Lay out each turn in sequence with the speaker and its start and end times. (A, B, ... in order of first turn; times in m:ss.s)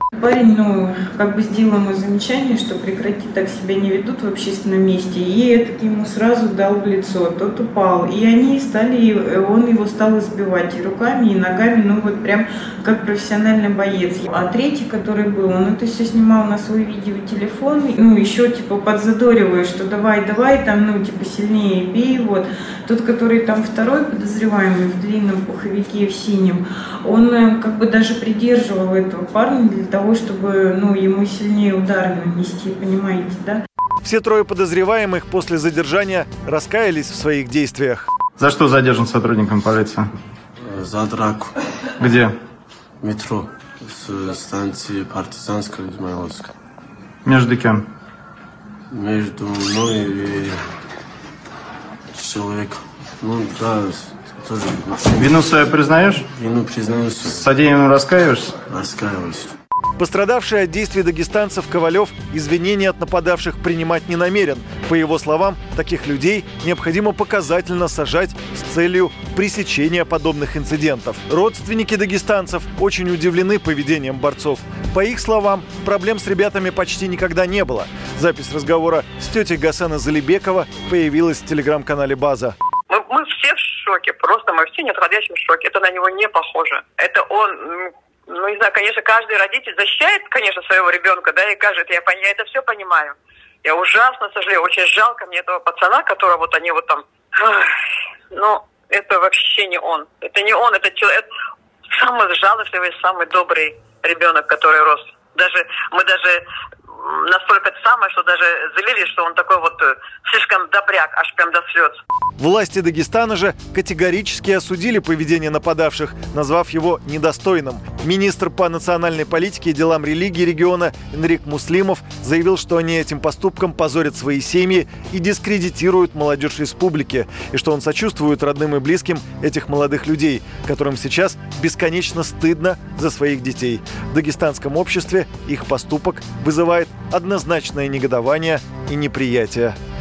0:00.2-0:33.6 A
0:34.0-0:38.1 B
0:38.4-0:40.1 C
0:40.6-0:41.5 D
0:42.0-0:42.4 C
0:43.0-0:46.5 D
0:47.2-0:47.8 C
0:48.9-0:50.6 D
0:52.1-0:55.4 D
0:55.2-0:56.3 C
0:56.4-0:57.4 D
0:57.3-0:58.6 C
0:58.7-0:59.6 D
1:00.0-1:22.6 B
1:22.9-1:37.8 E
1:38.3-1:41.3 E
1:41.9-1:46.4 E
1:47.0-1:52.0 E
1:52.4-2:19.8 B